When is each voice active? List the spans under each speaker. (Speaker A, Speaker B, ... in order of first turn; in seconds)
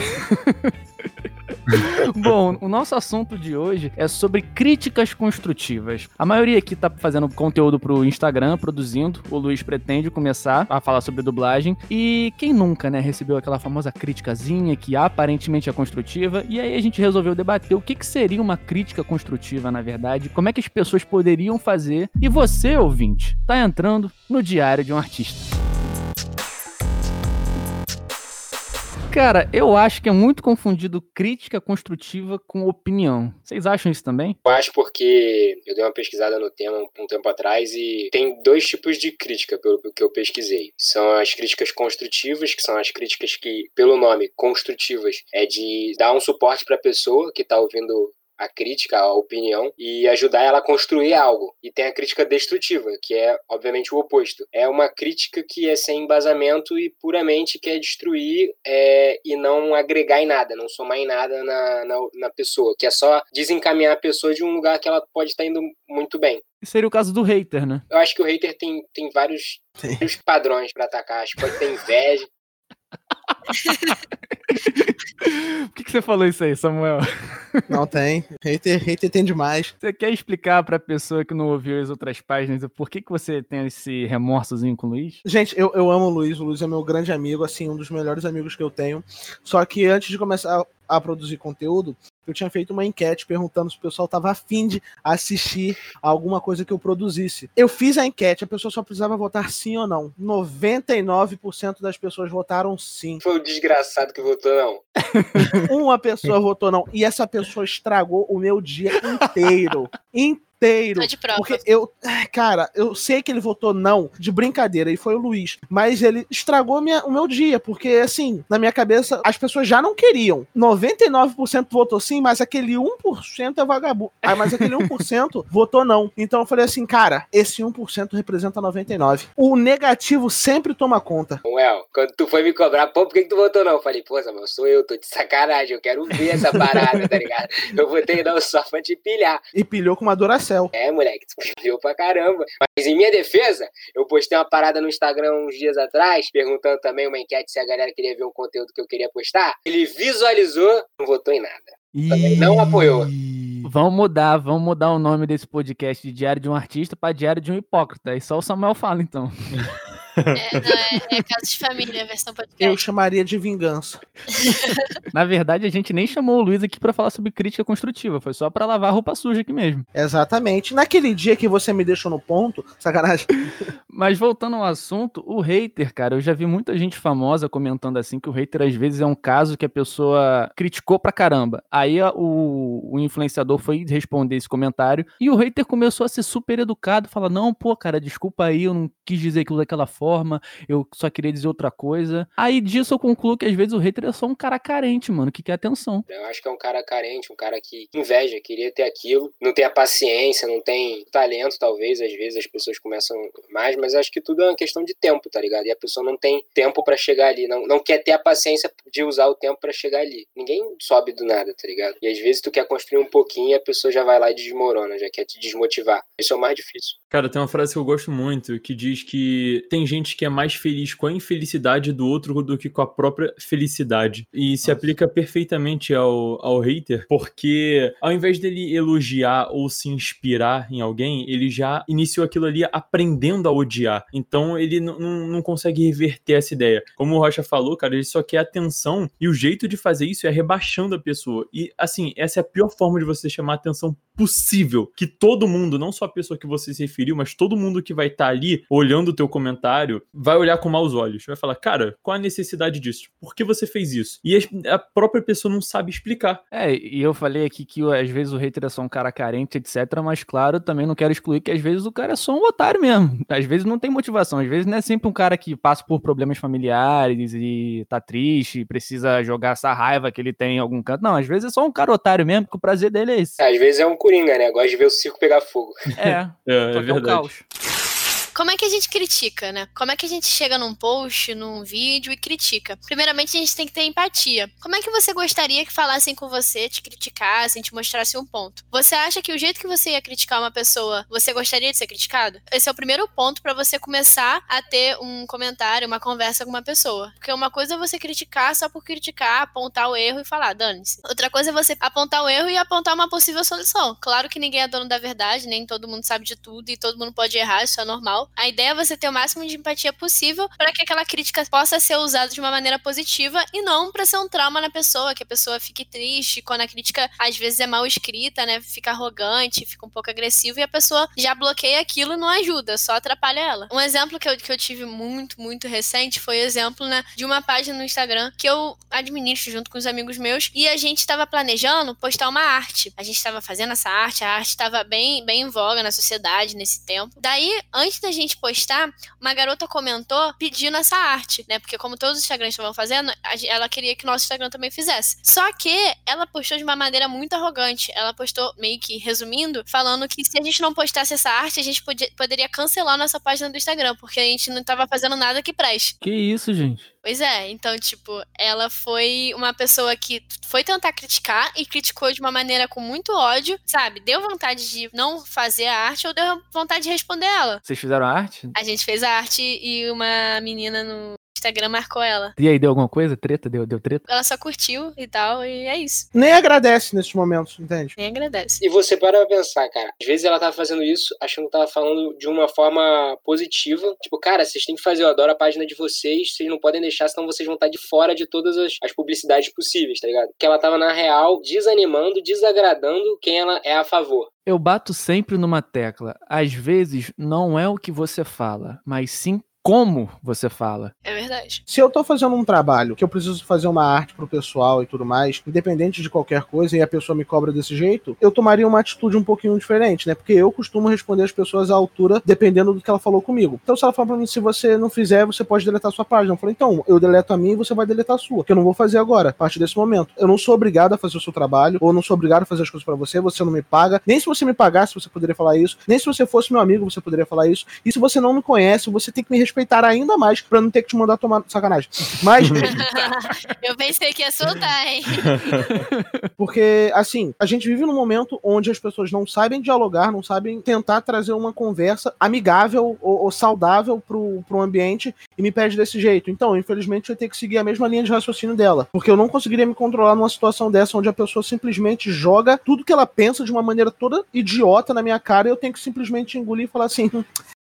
Speaker A: 0.1-0.7, 1.7-25.5, 29.1-34.4, 66.6-67.8, 74.5-77.7, 79.8-85.2, 105.1-105.6, 152.1-152.4, 153.6-159.6, 165.1-169.8, 173.9-196.1, 256.5-273.4, 276.0-277.4, 356.0-356.9, 367.6-368.5, 372.4-374.0, 394.5-400.9, 435.7-436.2
Speaker B: 34.5-66.4, 67.9-72.3, 103.2-104.8, 131.4-139.4, 140.7-153.1, 196.1-216.9, 273.4-275.8, 378.6-394.3
Speaker C: 77.7-79.7, 85.2-103.2, 105.6-131.4, 139.5-140.7, 162.6-164.0, 169.9-173.3, 376.1-377.9, 401.7-432.8, 436.4-457.3
Speaker D: 111.0-111.6, 160.4-162.8, 164.3-164.9, 278.3-355.9, 357.0-367.6, 368.5-372.3, 374.1-376.1, 378.0-378.6, 401.0-401.6, 432.6-435.5
Speaker E: 159.6-161.0, 217.1-256.4, 276.0-277.3, 432.4-432.7, 435.1-435.8